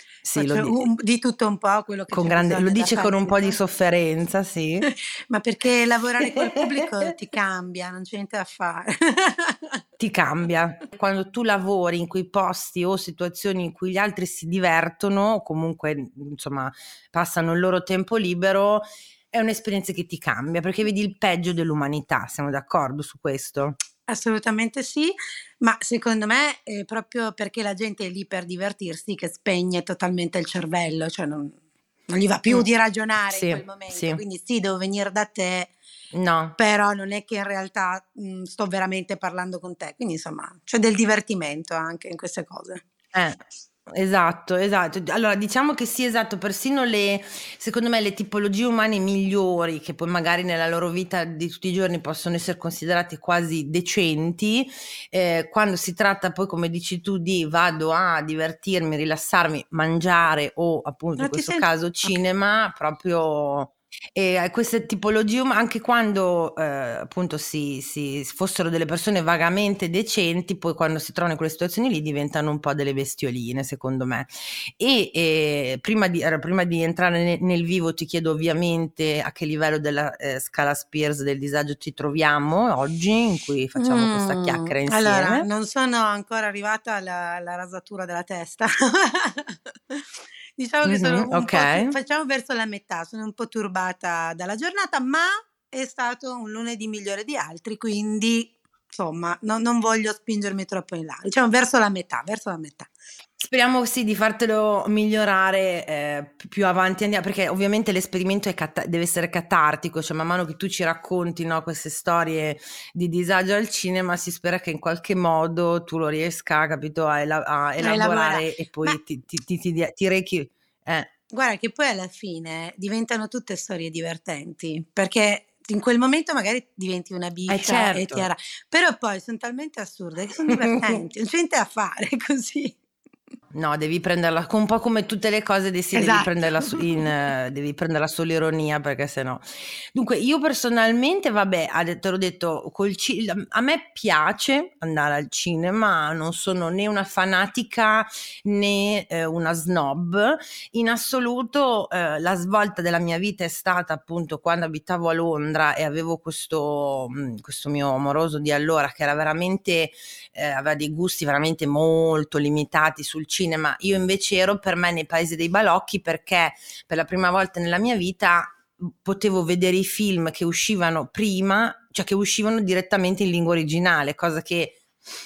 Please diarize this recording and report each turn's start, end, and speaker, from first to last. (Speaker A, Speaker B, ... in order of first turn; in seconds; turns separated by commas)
Speaker A: 0.2-0.9, Speaker B: 0.4-3.6, Speaker A: 2.1-4.9, Speaker B: 4.9-9.8, Speaker A: 6.2-7.1, Speaker A: 10.0-23.8, Speaker B: 24.1-31.6, Speaker B: 32.1-35.7, Speaker A: 33.3-34.2, Speaker A: 36.1-36.6, Speaker B: 36.6-42.8, Speaker A: 43.1-43.4, Speaker A: 43.9-85.5, Speaker B: 61.2-62.2, Speaker B: 83.8-102.9, Speaker A: 90.8-92.0, Speaker A: 103.4-121.1, Speaker B: 117.8-119.0, Speaker B: 121.3-132.8, Speaker A: 127.5-128.3, Speaker A: 130.5-131.0, Speaker A: 133.5-174.8, Speaker B: 135.9-137.1